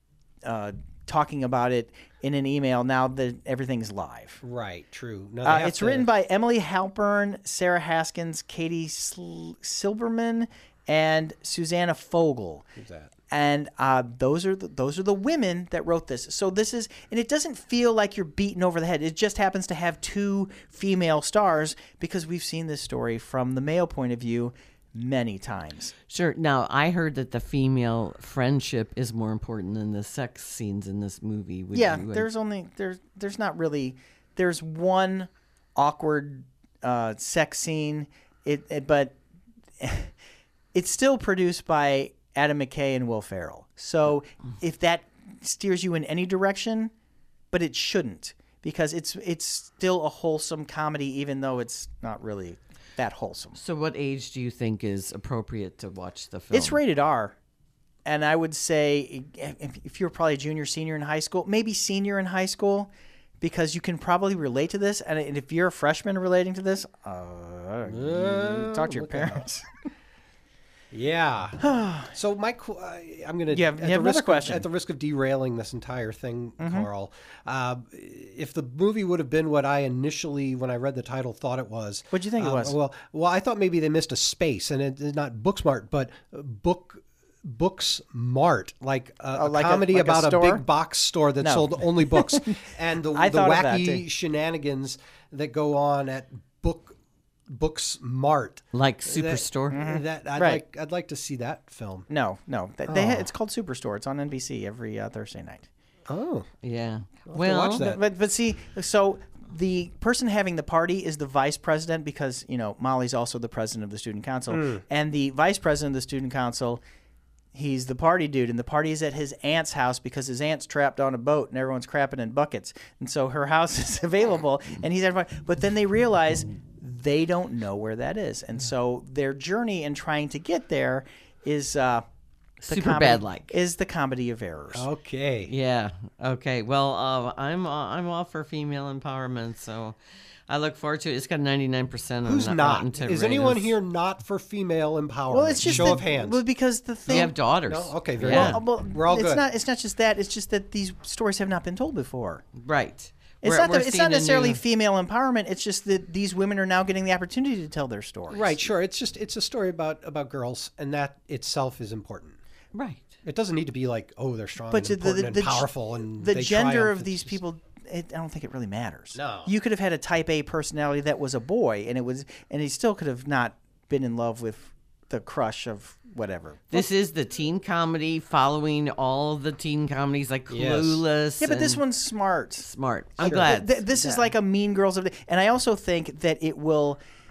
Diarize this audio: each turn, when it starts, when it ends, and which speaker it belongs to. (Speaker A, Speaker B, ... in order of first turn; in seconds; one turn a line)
Speaker A: 0.4-4.4
Speaker B: 4.4-6.1
Speaker A: 5.4-12.7
Speaker B: 12.8-13.1
Speaker A: 13.3-25.9
Speaker C: 26.1-32.2
Speaker A: 31.7-39.1
Speaker A: 39.8-40.1
Speaker A: 40.7-46.9
Speaker A: 47.5-53.6
Speaker C: 53.6-56.8
Speaker A: 56.5-57.4
Speaker A: 58.0-62.9
Speaker A: 63.4-69.7
Speaker B: 67.8-69.5
Speaker B: 70.9-71.6
Speaker A: 71.6-72.1
Speaker B: 72.1-102.1
Speaker A: 73.5-74.7
Speaker A: 76.6-76.9
Speaker A: 82.1-82.8
Speaker A: 89.3-90.6
Speaker A: 91.4-94.0
Speaker C: 98.7-99.8
Speaker A: 99.7-100.6
Speaker A: 102.1-105.7
Speaker B: 102.9-103.3
Speaker B: 106.1-106.5
Speaker C: 106.6-107.8
Speaker B: 107.3-108.0
Speaker A: 107.8-116.8
Speaker B: 114.5-114.8
Speaker A: 117.5-132.0
Speaker C: 132.6-133.5
Speaker A: 132.7-134.9
Speaker B: 134.7-135.5
Speaker C: 135.5-139.9
Speaker C: 140.5-143.7
Speaker B: 142.2-146.4
Speaker A: 145.3-147.3
Speaker C: 145.6-145.9
Speaker C: 147.1-148.6
Speaker B: 147.1-149.4
Speaker A: 148.2-152.4
Speaker C: 152.6-154.6
Speaker A: 153.4-158.7
Speaker B: 158.3-162.4
Speaker C: 162.7-163.2
Speaker B: 163.2-167.4
Speaker A: 164.7-176.9
Speaker B: 169.1-169.5
Speaker C: 176.7-181.8
Speaker B: 180.5-181.0
Speaker A: 181.4-182.7
Speaker C: 182.6-184.2
Speaker A: 183.2-187.0
Speaker B: 183.2-183.5